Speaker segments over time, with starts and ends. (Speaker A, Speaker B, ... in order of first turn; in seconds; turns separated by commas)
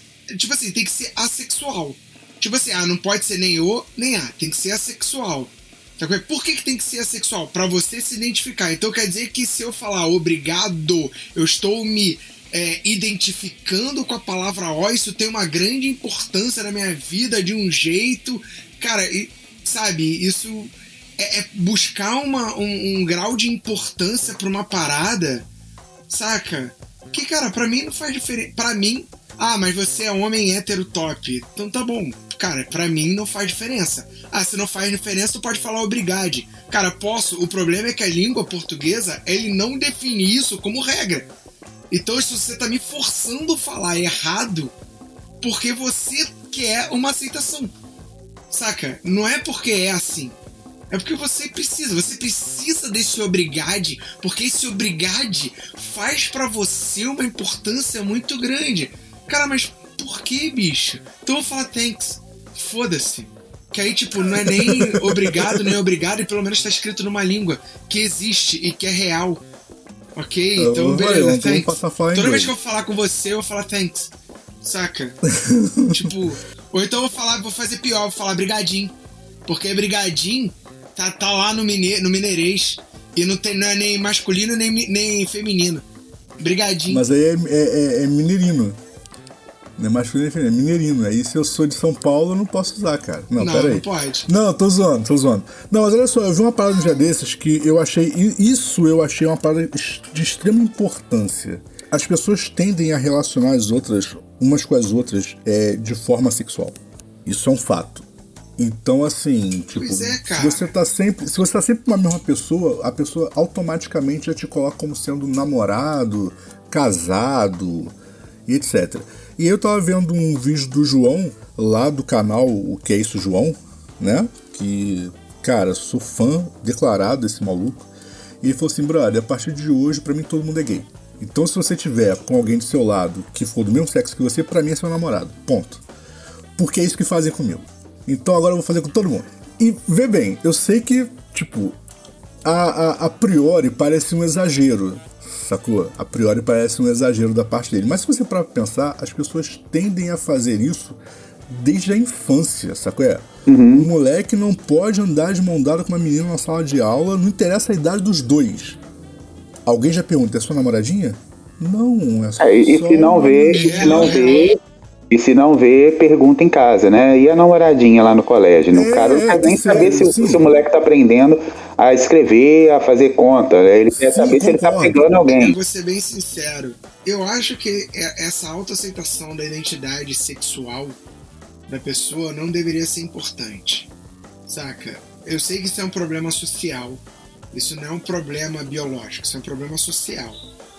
Speaker A: 0.3-25.5, Speaker A: 26.1-41.3, Speaker A: 41.9-44.7, Speaker A: 45.4-47.7, Speaker A: 48.5-50.4, Speaker A: 50.9-69.4, Speaker B: 64.2-65.8, Speaker A: 70.2-74.1, Speaker B: 70.5-72.5, Speaker A: 74.6-75.2, Speaker B: 75.3-76.2, Speaker A: 75.9-78.9, Speaker A: 79.5-85.8, Speaker A: 86.4-87.0, Speaker B: 86.9-88.8, Speaker B: 89.8-108.0, Speaker A: 93.3-94.3, Speaker B: 108.6-117.9, Speaker A: 109.7-110.6, Speaker B: 118.5-127.9, Speaker B: 128.4-135.8, Speaker B: 136.6-141.8, Speaker B: 142.4-158.8, Speaker C: 153.5-153.9, Speaker B: 159.7-164.2, Speaker C: 162.4-164.6, Speaker A: 163.5-164.5, Speaker C: 165.1-175.6, Speaker B: 168.7-170.5, Speaker B: 173.9-175.1, Speaker A: 175.3-181.0, Speaker A: 181.7-183.9, Speaker A: 184.5-190.4